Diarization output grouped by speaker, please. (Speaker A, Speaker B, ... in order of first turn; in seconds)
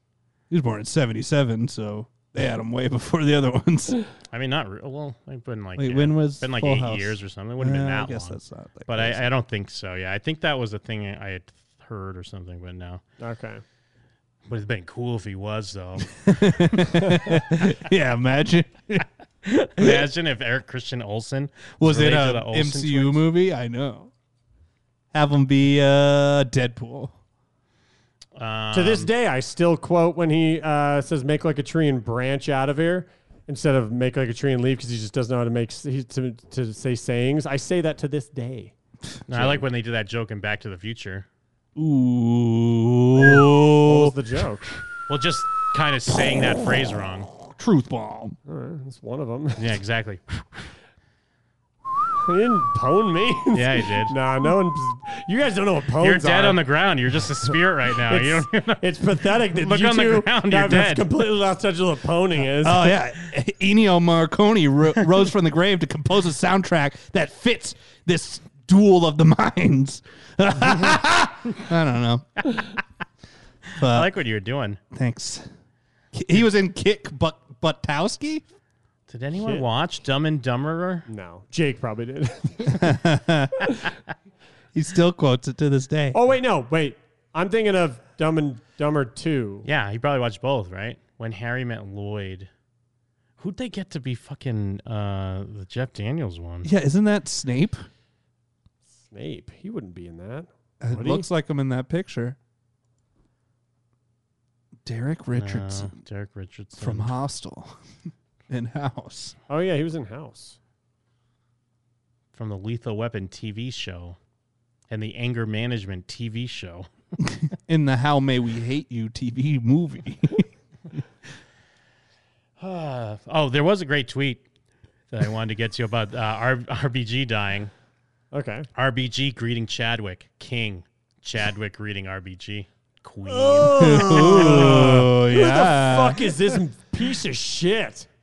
Speaker A: 0.5-4.0, 5.8-9.2, 16.2-19.1, 21.8-24.1, 25.1-27.1, 41.8-44.1, 47.5-48.4, 62.6-72.3, 73.8-74.1, 74.9-75.5, 76.1-78.4, 82.8-83.7, 84.7-86.2, 96.6-97.8, 100.8-102.4, 104.8-105.9, 106.8-107.8, 108.5-109.3, 117.3-120.5, 133.8-136.3
Speaker B: 4.3-13.0, 14.5-16.2, 19.4-23.2, 28.4-29.1, 39.3-41.3, 45.1-47.3, 49.6-50.7, 53.5-54.1, 56.0-61.1, 73.8-74.8, 79.1-81.1, 89.7-92.5, 93.4-96.7, 105.3-107.1, 112.3-114.2, 114.9-116.9, 122.6-124.5, 125.1-127.7, 128.8-134.7
Speaker C: 13.2-13.6, 28.7-38.7, 39.3-39.6, 43.2-44.7, 48.5-49.7, 52.2-56.6, 58.1-62.9, 81.1-82.9, 86.1-89.7, 98.9-101.3, 109.5-110.6, 128.3-128.7, 133.3-138.1